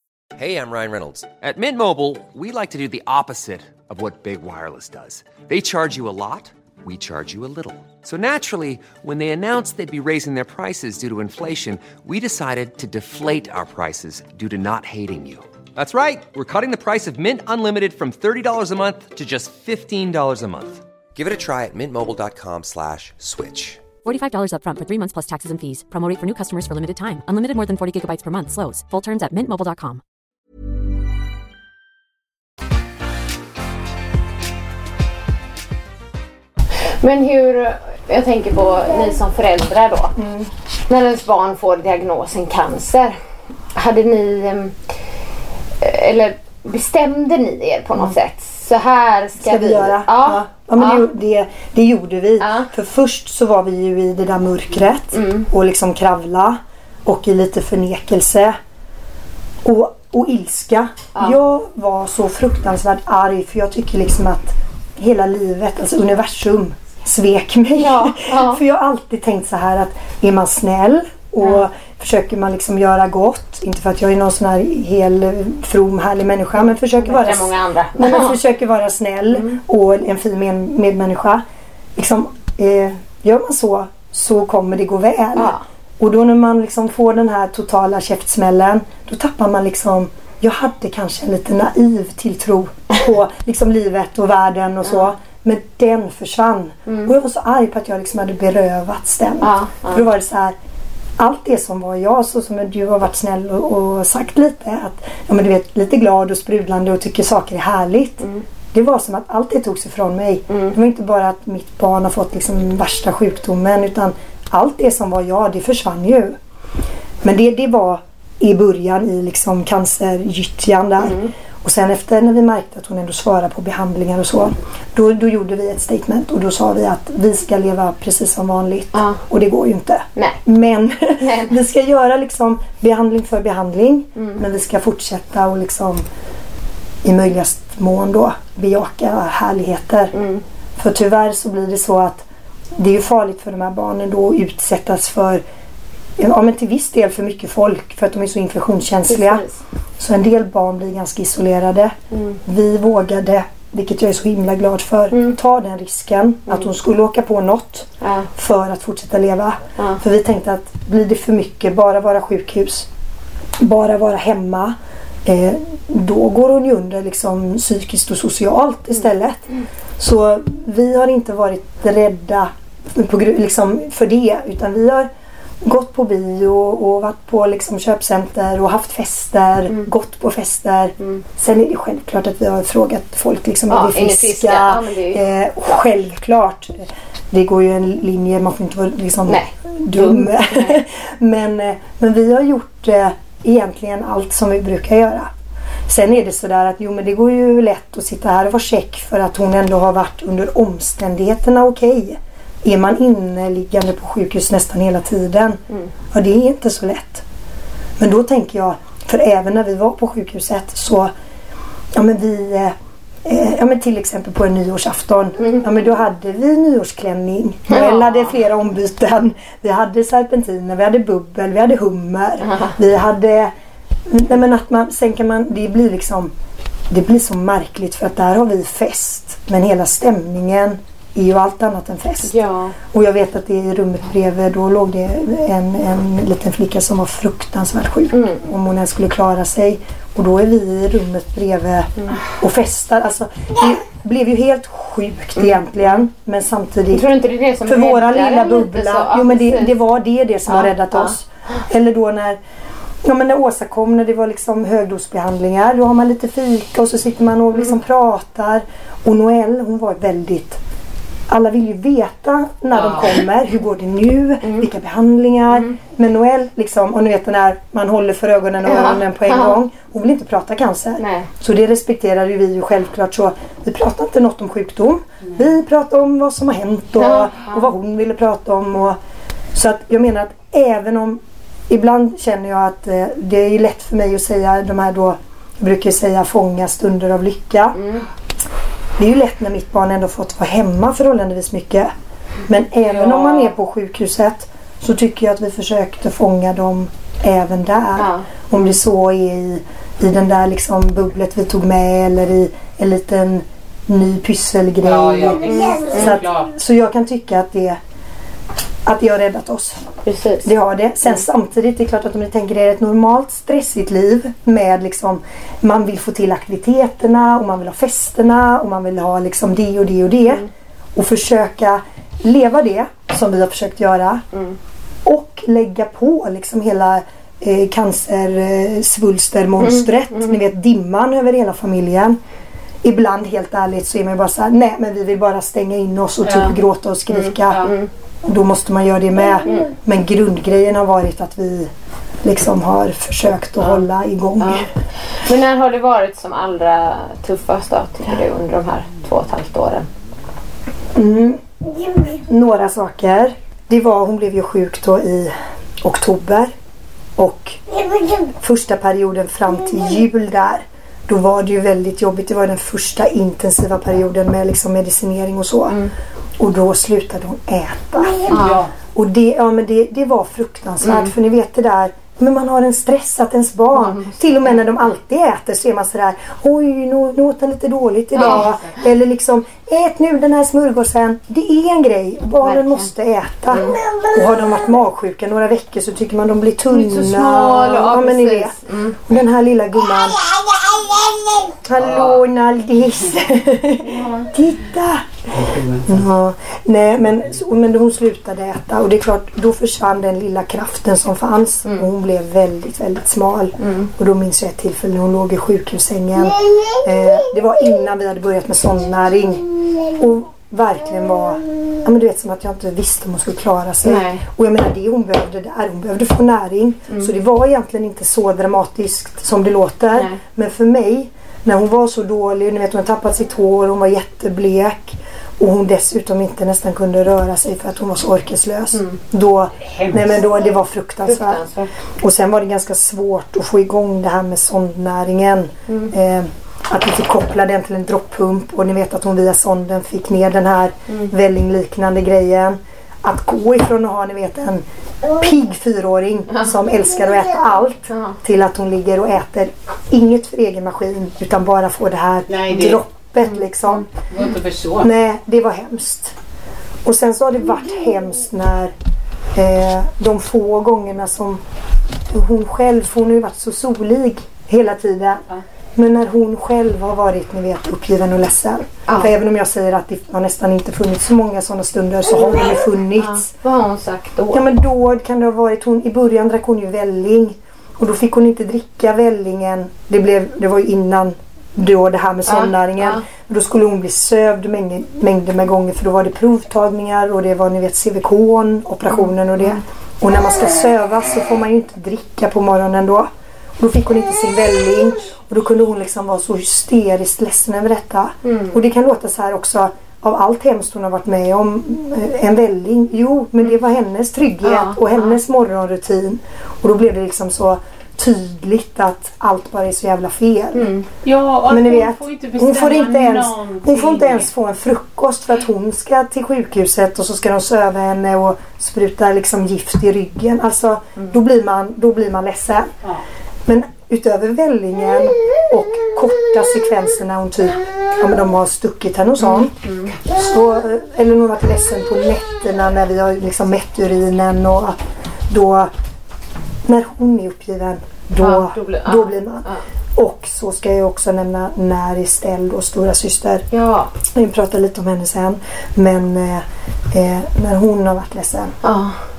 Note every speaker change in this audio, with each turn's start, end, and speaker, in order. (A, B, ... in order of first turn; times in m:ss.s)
0:00.4-0:23.8 A
0:24.0-0:30.0 B
0:37.0-0:40.1 C
0:40.2-0:40.5 D
0:40.9-0:43.2 C
0:43.7-0:44.8 C
0:45.8-0:51.1 C
0:49.4-0:58.6 D
0:52.4-0:52.7 C
0:55.1-0:55.5 C
0:59.6-1:21.4 D
1:07.7-1:08.6 C
1:17.0-1:18.4 C
1:22.0-1:40.6 D
1:25.4-1:25.6 C
1:39.4-1:40.0 C
1:41.2-1:56.4 D
1:50.5-1:50.7 C
1:57.2-2:16.0 D
2:01.0-2:01.3 C
2:08.9-2:09.2 C
2:11.2-2:11.6 C
2:17.0-2:20.1 D
2:20.1-2:20.4 C
2:20.8-2:22.2 D
2:22.8-2:25.4 D
2:26.2-2:29.4 D
2:29.1-2:29.5 C
2:30.0-2:42.9 D
2:32.1-2:32.4 C
2:38.0-2:38.3 C
2:43.6-2:55.1 D
2:55.6-3:15.3 D
3:03.7-3:05.2 C
3:09.3-3:10.8 C
3:15.9-3:27.2 D
3:28.0-3:31.1 D
3:31.9-3:43.5 D
3:37.7-3:38.3 C
3:42.4-3:42.7 C
3:44.1-3:46.3 D
3:46.9-3:52.4 D
3:52.2-3:52.7 C
3:52.9-4:07.1 D
3:58.1-3:58.4 C
4:06.9-4:09.7 C
4:07.6-4:12.4 D
4:10.5-4:11.1 C
4:13.0-4:20.6 D
4:21.3-4:39.0 D
4:28.6-4:29.6 C
4:31.0-4:31.3 C
4:37.0-4:37.6 C
4:39.5-4:47.8 D
4:47.7-4:48.0 C
4:49.0-4:51.9 D
4:52.5-5:07.8 D
4:52.9-4:53.4 E
4:58.0-4:58.3 C
5:04.8-5:06.5 E
5:05.7-5:06.1 C
5:08.8-5:09.8 D
5:10.0-5:10.5 C
5:10.4-5:24.2 D
5:25.0-5:32.2 D
5:29.6-5:30.3 C
5:32.8-5:41.7 D
5:36.2-5:36.5 E
5:37.1-5:37.9 C
5:42.2-5:44.7 D
5:44.4-5:49.9 C
5:50.9-5:56.5 D
5:57.2-5:57.6 D
5:58.1-6:05.8 D
6:06.4-7:11.4 D
6:08.3-6:08.7 E
6:08.3-6:08.6 C
6:10.8-6:11.1 C
6:13.7-6:14.6 C
6:18.2-6:18.4 C
6:18.2-6:18.7 E
6:22.4-6:22.9 C
6:23.5-6:23.8 C
6:26.7-6:29.0 C
6:31.8-6:32.2 E
6:33.8-6:34.3 E
6:35.3-6:36.0 E
6:43.6-6:43.9 C
6:53.8-6:54.2 C
7:09.6-7:10.2 E
7:11.0-7:11.7 C
7:12.0-7:33.9 D
7:27.9-7:28.2 C
7:32.3-7:32.8 E
7:34.1-7:34.9 E
7:34.8-7:36.1 D
7:36.8-7:38.7 D
7:39.3-7:41.4 D
7:42.1-7:45.2 D
7:45.7-7:53.3 D
7:48.9-7:49.1 C
7:53.0-7:54.5 C
7:54.3-8:30.7 D
8:02.2-8:03.0 C
8:18.2-8:18.6 C
8:24.4-8:25.2 C
8:30.5-8:30.8 C
8:31.0-8:34.3 E
8:31.5-8:42.7 D
8:43.4-8:55.7 D
8:49.2-8:50.0 C
8:56.6-9:03.4 D
8:58.2-8:59.6 C
9:03.5-9:03.9 C
9:04.1-9:08.6 D
9:08.6-9:09.0 C